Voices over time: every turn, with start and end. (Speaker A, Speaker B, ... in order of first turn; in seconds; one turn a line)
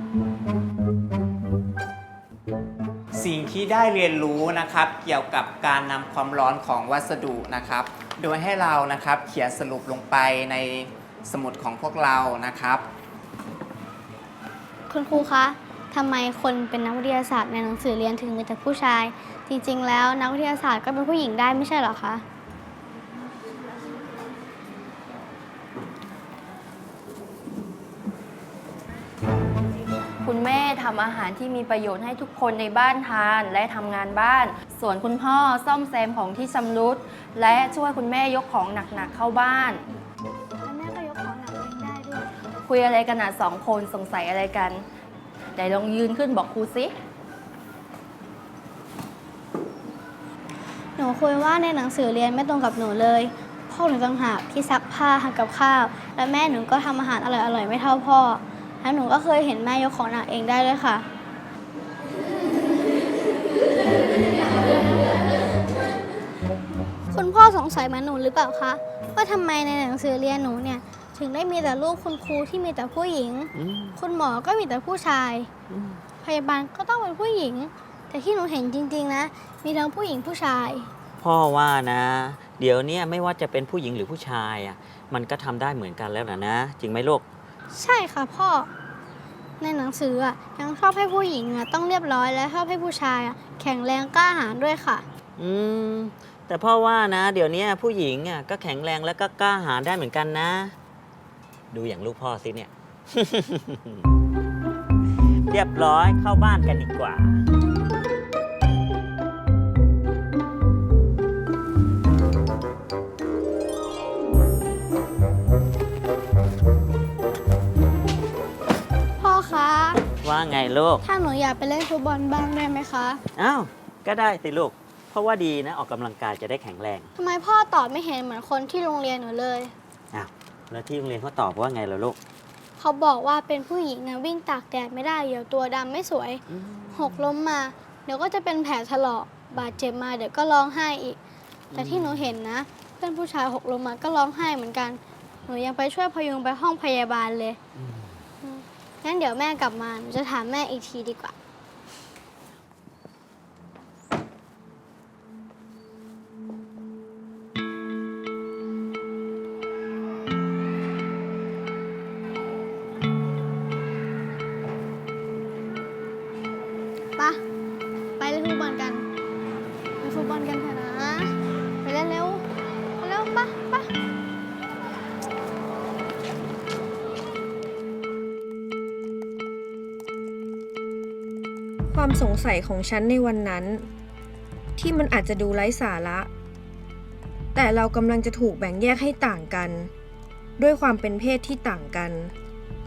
Speaker A: 3.1-12.8
Speaker B: 14.9-22.2
Speaker C: 30.2-39.8
Speaker B: 40.6-42.3
Speaker C: 42.6-44.8
Speaker C: 45.5-46.9
Speaker B: 51.0-61.0
Speaker B: 67.1-75.5
Speaker D: 73.5-74.0
Speaker D: 75.7-76.0
Speaker B: 76.2-80.9
Speaker D: 81.2-87.2
Speaker B: 87.7-88.7
Speaker B: 89.6-95.0
Speaker D: 95.4-100.7
Speaker D: 101.7-104.0
Speaker D: 105.5-107.4
Speaker B: 119.2-120.0
Speaker D: 120.2-121.0
Speaker B: 121.0-123.2
Speaker D: 123.3-127.1
Speaker B: 127.2-129.7
Speaker D: 130.1-132.2
Speaker B: 132.8-141.2
Speaker D: 136.5-137.2
Speaker D: 141.7-142.2
Speaker B: 141.7-147.6
Speaker B: 148.4-151.3
Speaker B: 167.2-167.4
Speaker B: 168.2-169.0
Speaker B: 170.0-172.4
Speaker B: 173.0-173.9
Speaker E: 181.9-183.9
Speaker E: 184.8-186.3
Speaker E: 187.5-189.9
Speaker E: 190.6-192.3